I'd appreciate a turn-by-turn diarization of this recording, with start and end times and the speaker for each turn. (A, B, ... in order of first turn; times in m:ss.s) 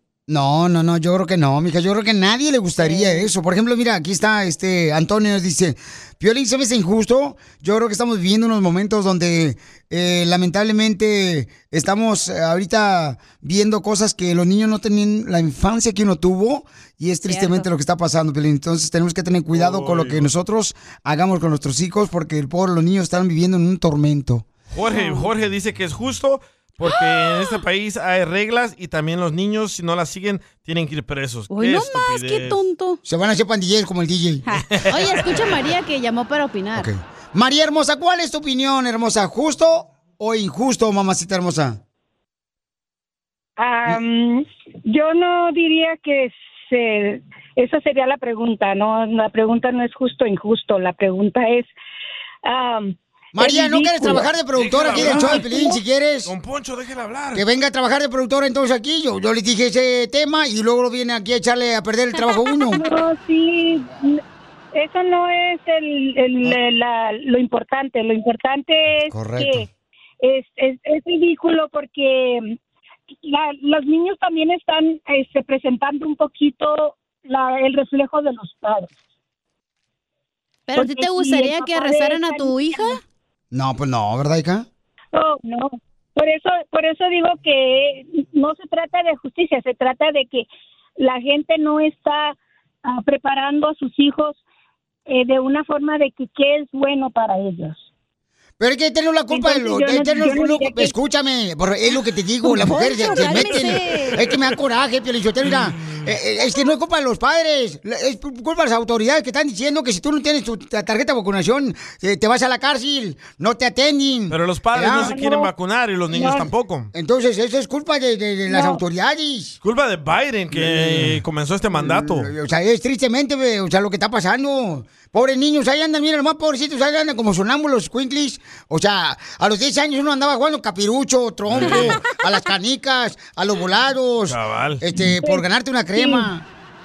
0:00.3-0:24.4 A
0:02.8-0:03.3 B
0:17.3-0:17.7 B
0:19.5-0:20.3 C
0:24.7-0:32.6 C
0:24.8-0:25.3 B
0:26.8-0:27.6 B
0:31.5-0:33.0 B
0:33.0-0:34.4 A
0:34.5-0:36.9 B
0:34.8-0:35.4 C
0:36.7-0:41.8 A
0:43.6-0:51.7 D
0:52.4-0:54.3 D
0:53.3-0:56.3 A
0:54.5-0:55.6 C
0:56.2-0:57.4 C
0:57.3-1:02.8 A
1:02.7-1:04.2 D
1:04.7-1:09.7 D
1:09.1-1:09.6 A
1:10.2-1:12.6 D
1:13.2-1:18.9 D
1:20.7-1:23.0 B
1:20.8-1:23.0 D
1:23.5-1:24.6 A
1:25.1-1:30.5 D
1:31.0-1:34.4 D
1:35.1-1:37.9 D
1:38.6-1:55.2 A
1:39.3-1:40.9 D
1:42.4-1:44.2 B
1:54.3-1:56.9 C
1:55.0-1:55.5 D
1:56.1-1:56.5 D
1:56.9-1:59.6 A
1:58.5-1:58.8 D
1:59.6-2:02.3 C
2:00.5-2:01.2 A
2:01.7-2:16.4 A
2:11.5-2:11.9 C
2:11.6-2:12.0 B
2:14.3-2:14.8 C